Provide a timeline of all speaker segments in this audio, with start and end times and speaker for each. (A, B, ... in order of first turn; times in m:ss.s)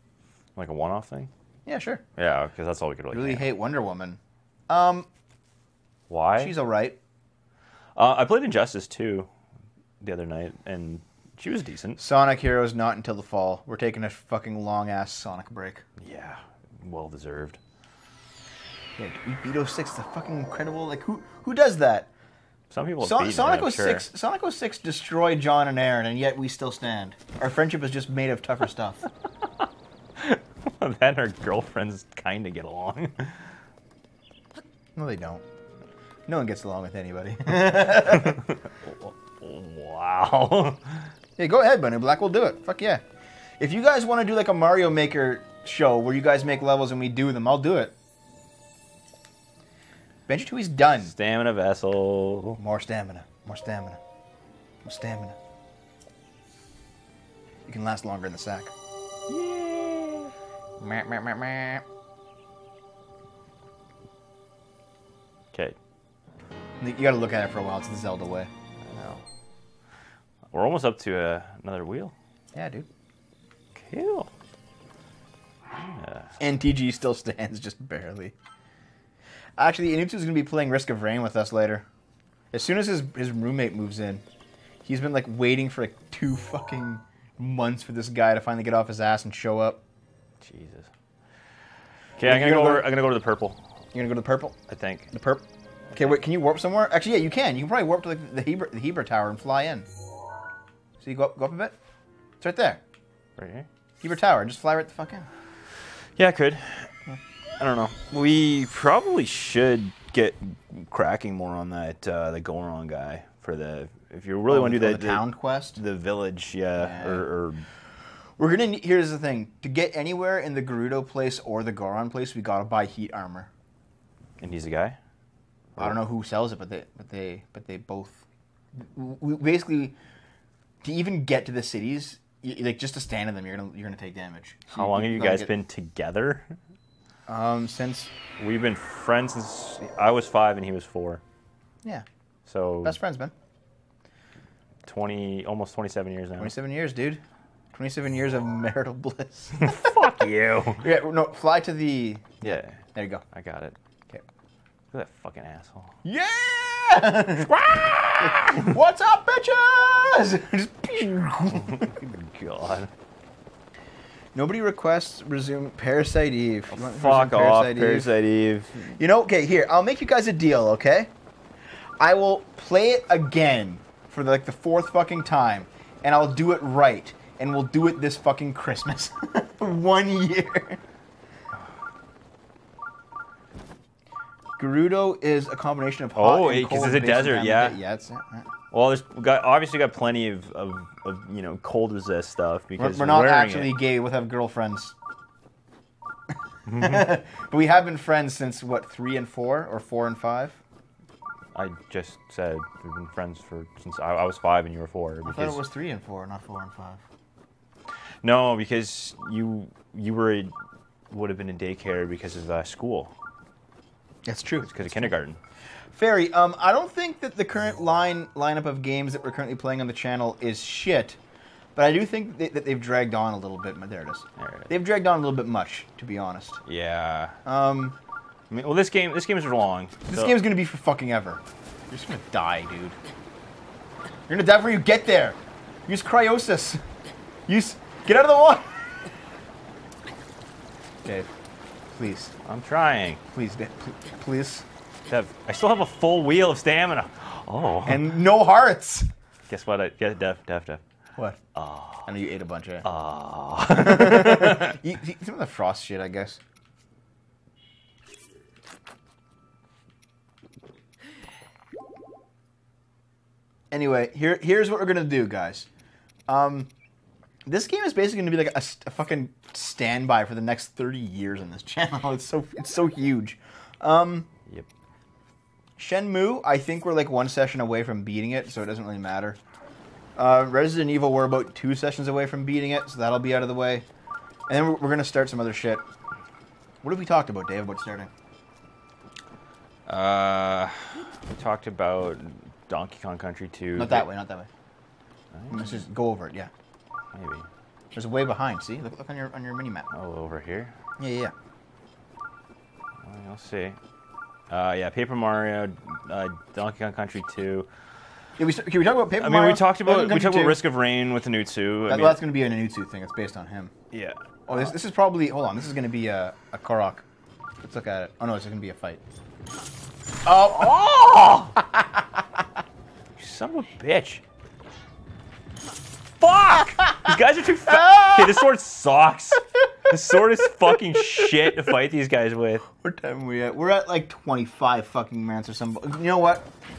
0:00.6-0:01.3 A
0:01.7-0:02.0 B
0:02.2-0:03.5 A
0:03.1-0:05.1 B
0:06.1-0:06.5 A
0:06.4-0:07.0 B
0:08.0-0:09.3 A
0:10.0-0:12.0 A
0:12.0-0:15.8 B
0:16.0-0:17.6 A
0:19.0-0:22.1 B
0:22.7-0:24.1 A
0:23.0-0:29.0 B
0:30.2-0:33.5 A
0:35.0-0:35.4 B
0:36.3-0:38.4 B
0:37.9-0:41.1 A
0:41.4-0:43.0 B
0:43.6-0:47.9 B
0:50.3-0:51.1 B
0:51.0-0:52.6 A
0:52.6-0:54.0 B
0:54.8-0:55.4 B
0:57.7-0:58.7 B
0:59.3-1:01.8 A
1:06.8-1:08.5 B
1:08.8-1:09.2 A
1:10.5-1:12.1 A
1:12.5-1:12.9 B
1:13.8-1:14.3 A
1:15.7-1:16.4 A
1:16.4-1:18.4 B
1:19.6-1:21.9 B
1:22.5-1:24.2 B
1:24.8-1:29.8 B
1:30.4-1:30.9 A
1:32.2-1:33.6 A
1:32.2-1:32.9 B
1:33.9-1:34.6 B
1:34.7-1:35.1 A
1:35.1-1:39.9 B
1:41.0-1:41.8 B
1:42.4-1:42.8 B
1:43.4-1:43.7 A
1:44.0-1:45.3 B
1:46.2-1:46.9 A
1:47.6-1:55.2 A
1:54.5-1:55.8 B
1:55.8-1:57.6 A
1:56.8-1:57.3 B
1:58.4-2:03.5 B
2:04.4-2:05.0 A
2:05.8-2:10.0 B
2:10.8-2:15.5 B
2:14.7-2:16.6 A
2:17.3-2:18.1 B
2:18.4-2:21.2 A
2:22.5-2:23.0 A
2:22.8-2:23.3 B
2:24.9-2:26.6 A
2:26.4-2:27.2 B
2:27.7-2:29.8 B
2:29.6-2:30.9 A
2:30.8-2:33.2 B
2:32.4-2:33.8 A
2:34.9-2:36.0 A
2:36.0-2:37.6 B
2:37.4-2:38.7 A
2:38.2-2:41.9 B
2:41.5-2:42.9 A
2:44.3-2:48.1 B
2:46.7-2:48.9 A
2:48.8-2:51.1 B
2:52.0-3:00.8 B
3:04.6-3:08.5 B
3:06.2-3:07.8 A
3:08.7-3:13.8 A
3:12.8-3:15.0 B
3:16.3-3:20.6 B
3:16.7-3:17.0 A
3:21.5-3:25.6 A
3:25.2-3:27.0 B
3:28.2-3:30.5 A
3:31.1-3:33.1 A
3:34.2-3:35.1 B
3:34.6-3:35.4 A
3:35.9-3:41.2 B
3:41.8-3:46.6 B
3:44.4-3:44.7 A
3:46.6-3:47.4 A
3:47.4-3:48.0 B
3:48.5-3:50.4 A
3:50.1-3:53.0 B
3:54.3-3:56.8 B
3:57.5-3:58.7 B
4:01.0-4:01.3 B
4:01.9-4:02.3 B
4:02.4-4:03.2 A
4:03.3-4:04.7 B
4:05.1-4:08.1 A
4:07.9-4:09.1 B
4:09.5-4:10.8 A
4:11.6-4:12.1 A
4:12.1-4:12.8 B
4:12.8-4:14.8 A
4:13.7-4:16.4 B
4:23.7-4:25.7 B
4:26.3-4:26.7 B
4:27.5-4:34.3 B
4:35.8-4:39.4 B
4:40.2-4:43.9 B
4:44.5-4:45.8 B
4:46.8-4:48.1 B
4:49.9-4:54.1 A
4:53.8-4:54.5 B
4:55.3-4:55.7 A
4:55.5-4:56.5 B
4:57.1-4:57.5 A
4:57.9-4:59.9 B
4:59.9-5:00.8 A
5:01.0-5:01.3 B
5:03.0-5:03.8 A
5:04.5-5:07.7 A
5:08.4-5:10.6 B
5:09.2-5:12.2 A
5:11.9-5:13.7 B
5:13.9-5:14.7 A
5:14.5-5:17.1 B
5:17.6-5:19.0 B
5:20.2-5:22.2 B
5:23.2-5:24.2 A
5:26.2-5:32.6 A
5:27.7-5:28.4 B
5:31.2-5:31.5 B
5:32.8-5:36.5 B